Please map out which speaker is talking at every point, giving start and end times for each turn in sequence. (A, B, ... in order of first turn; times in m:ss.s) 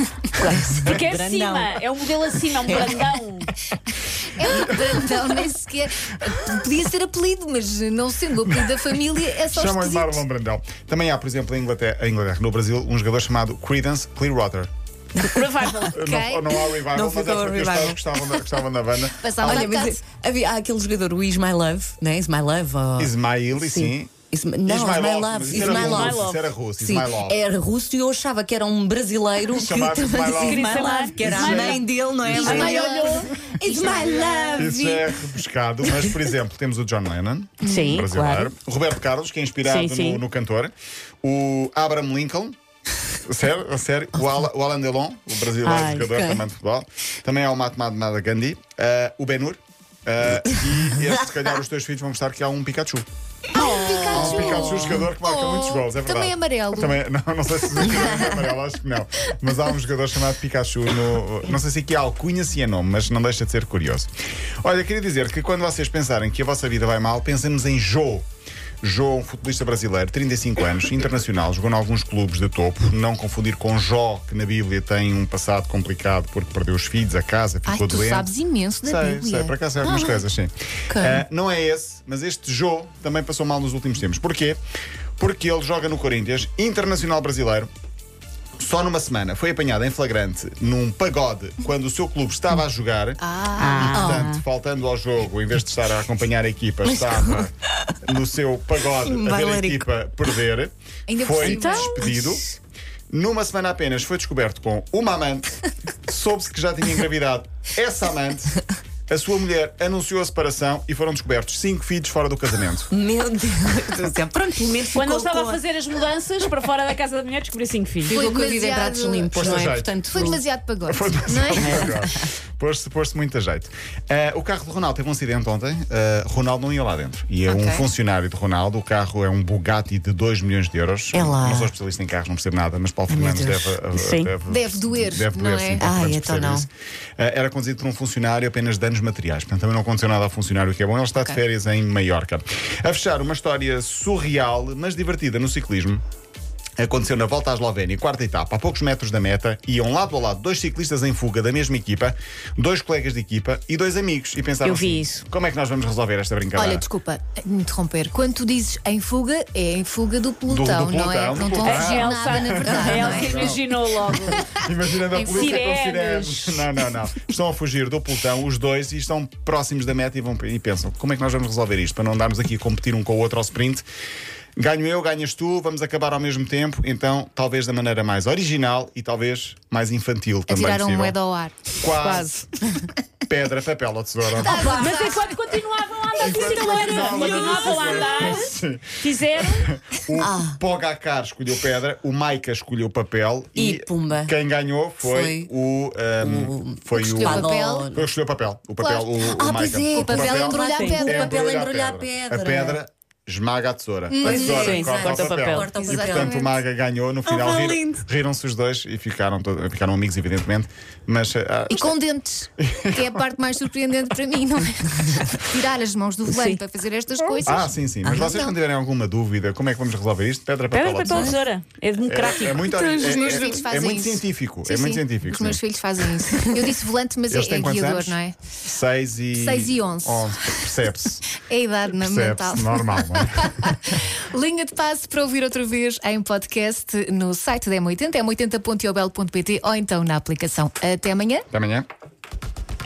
0:00.4-0:01.8 A
0:00.4-0:03.5 B
0:02.5-0:03.1 A
0:04.3-0:10.2 C
0:04.5-0:05.2 D
0:09.5-0:14.7 D
0:15.2-0:15.9 B
0:15.2-0:15.8 A
0:15.9-0:19.7 D
0:16.0-0:16.5 C
0:16.8-0:18.4 A
0:19.2-0:20.0 C
0:19.4-0:26.2 A
0:23.0-0:24.1 D
0:24.6-0:27.4 D
0:25.5-0:26.5 B
0:26.8-0:35.2 A
0:29.5-0:33.6 D
0:30.4-0:33.2 B
0:32.4-0:34.8 C
0:34.5-0:42.6 D
0:35.9-0:36.3 A
0:37.6-0:38.5 B
0:39.6-0:40.2 B
0:43.2-0:53.0 D
0:44.2-0:44.4 A
0:45.6-0:46.1 B
0:46.0-0:46.4 A
0:53.5-0:57.0 C
0:53.6-0:55.0 A
0:54.1-1:04.1 D
1:04.6-1:08.2 D
1:08.8-1:18.3 D
1:17.6-1:19.6 C
1:18.8-1:24.6 D
1:19.8-1:20.2 A
1:20.9-1:21.2 A
1:25.2-1:27.7 D
1:28.6-1:33.2 D
1:33.2-1:33.9 C
1:33.6-1:34.4 B
1:33.8-1:37.5 D
1:33.9-1:34.3 A
1:36.8-1:38.0 A
1:38.0-1:42.4 D
1:38.9-1:39.9 A
1:41.1-1:42.0 C
1:41.4-1:42.1 B
1:42.0-1:42.4 A
1:43.1-1:52.9 D
1:52.9-1:55.6 A
1:54.8-1:58.2 B
1:58.0-2:00.4 A
1:58.1-1:59.3 C
1:59.3-2:26.0 D
2:00.1-2:01.9 C
2:01.6-2:01.9 B
2:01.6-2:02.0 A
2:07.4-2:07.9 C
2:11.1-2:11.7 A
2:13.1-2:13.8 A
2:14.0-2:14.3 B
2:14.5-2:15.9 C
2:15.8-2:16.7 A
2:26.8-2:36.8 D
2:34.6-2:35.2 B
2:36.5-2:45.7 C
2:40.5-2:43.6 D
2:41.4-2:44.4 B
2:44.4-2:53.8 D
2:45.3-2:46.5 B
2:54.6-3:01.2 D
3:00.5-3:01.7 C
3:01.8-3:02.5 D
3:02.0-3:02.4 B
3:03.2-3:04.9 D
3:04.4-3:05.4 C
3:04.4-3:09.7 B
3:06.2-3:32.0 D
3:07.4-3:07.7 A
3:10.2-3:10.6 A
3:13.5-3:14.3 A
3:15.0-3:15.5 A
3:16.2-3:18.0 A
3:17.0-3:17.9 C
3:18.8-3:19.2 C
3:19.2-3:22.8 A
3:19.9-3:21.4 C
3:20.7-3:21.0 B
3:24.1-3:25.0 C
3:24.2-3:26.4 A
3:24.4-3:25.7 B
3:25.7-3:26.6 C
3:27.2-3:28.0 A
3:31.7-3:38.6 C
3:32.6-3:33.2 D
3:36.3-3:36.6 B
3:37.4-3:41.4 D
3:40.7-3:42.7 B
3:41.1-3:41.3 A
3:42.0-3:45.6 D
3:42.6-3:48.4 C
3:47.3-3:51.3 D
3:49.3-3:50.5 C
3:51.3-4:01.5 C
3:51.9-3:53.9 D
4:01.5-4:01.8 D